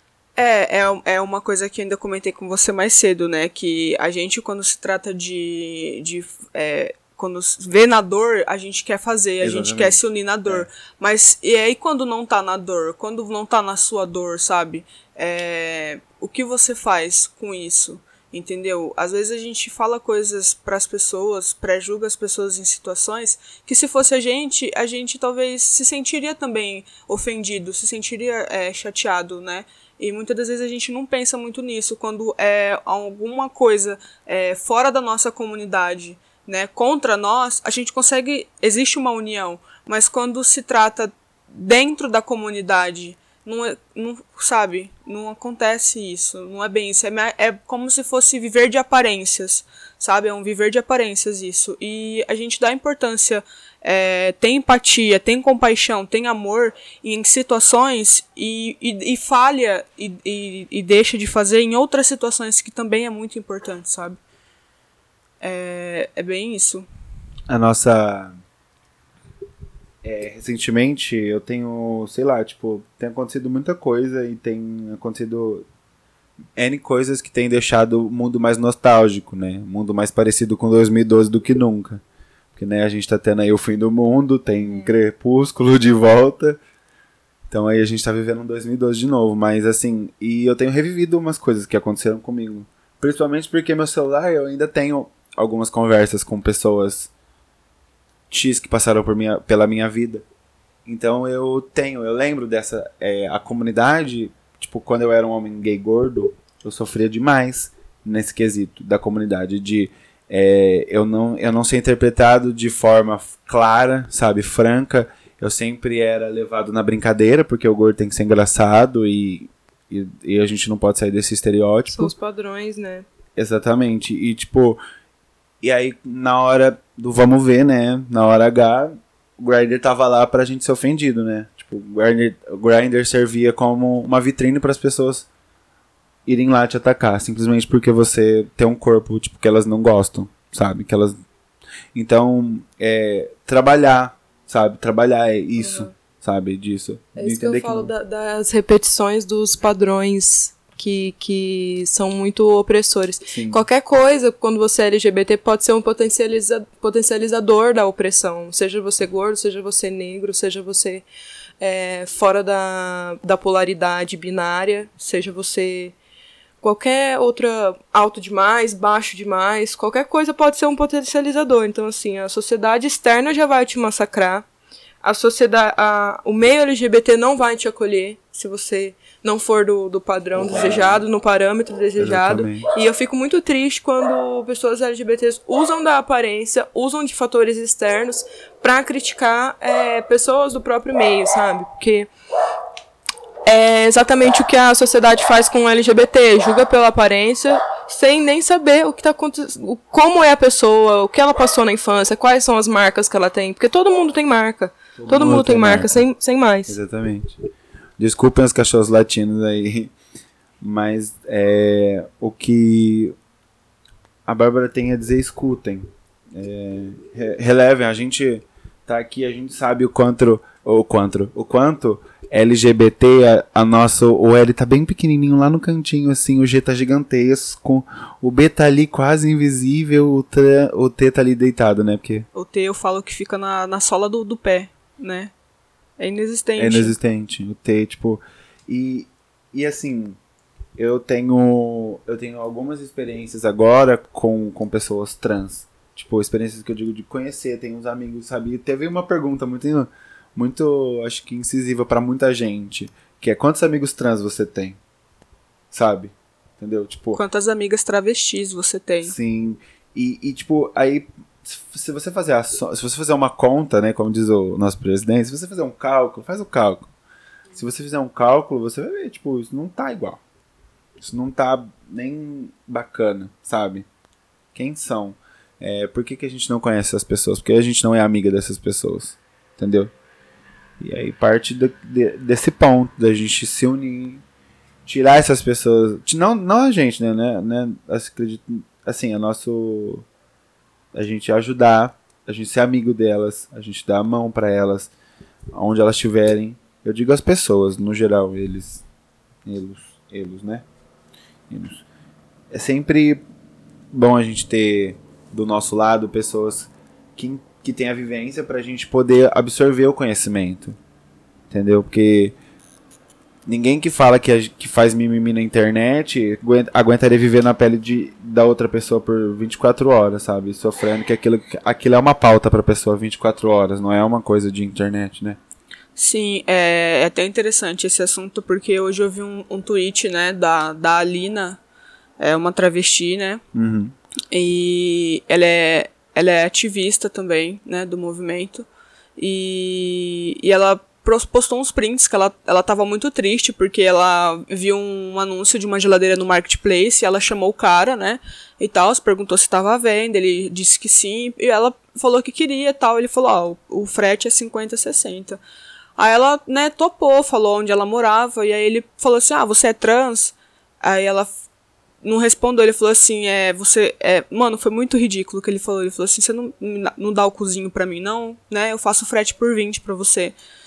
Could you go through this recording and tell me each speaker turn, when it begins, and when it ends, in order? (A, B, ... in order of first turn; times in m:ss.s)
0:00.4-1:04.2 A
0:09.4-0:10.6 B
1:05.4-1:06.9 A
1:07.5-1:08.3 B
1:10.0-1:15.6 B
1:16.6-1:22.0 B
1:22.5-1:26.6 B
1:24.7-1:24.9 C
1:27.5-1:37.1 B
1:38.3-1:40.2 B
1:40.8-2:02.1 B
2:01.9-2:03.0 C
2:03.4-2:04.8 B
2:05.6-2:15.3 B
2:16.2-2:21.2 B
2:21.9-2:27.9 B
2:25.6-2:25.9 C
2:27.2-2:41.0 C
2:33.3-2:33.6 B
2:41.6-2:45.9 C
2:46.6-2:54.4 C
2:55.0-3:12.1 C
3:00.3-3:01.0 B
3:02.0-3:02.7 B
3:13.4-3:26.8 C
3:25.0-3:26.0 B
3:26.7-3:27.4 B
3:28.0-3:29.9 B
3:30.6-3:33.1 B
3:34.3-3:52.2 B
3:52.3-3:55.3 A
3:56.0-3:57.0 A
3:56.6-4:00.2 B
4:00.8-4:14.8 B
4:15.7-4:17.2 B
4:17.1-4:19.1 A
4:19.0-4:26.9 B
4:27.5-4:30.2 B
4:31.0-4:33.8 B
4:34.5-4:39.9 B
4:40.8-4:44.2 B
4:44.8-4:50.0 B
4:50.9-4:54.9 B
4:55.5-4:58.8 B
4:59.4-5:00.6 B
5:01.5-5:01.8 B
5:02.5-5:03.2 B
5:03.9-5:10.8 B
5:11.5-5:12.3 B
5:13.4-5:25.4 B
5:26.0-5:31.6 A
5:32.2-5:33.4 A
5:33.5-5:33.9 B
5:34.3-5:38.6 A
5:39.2-5:55.4 A
5:56.0-6:01.3 A
6:02.0-6:10.3 A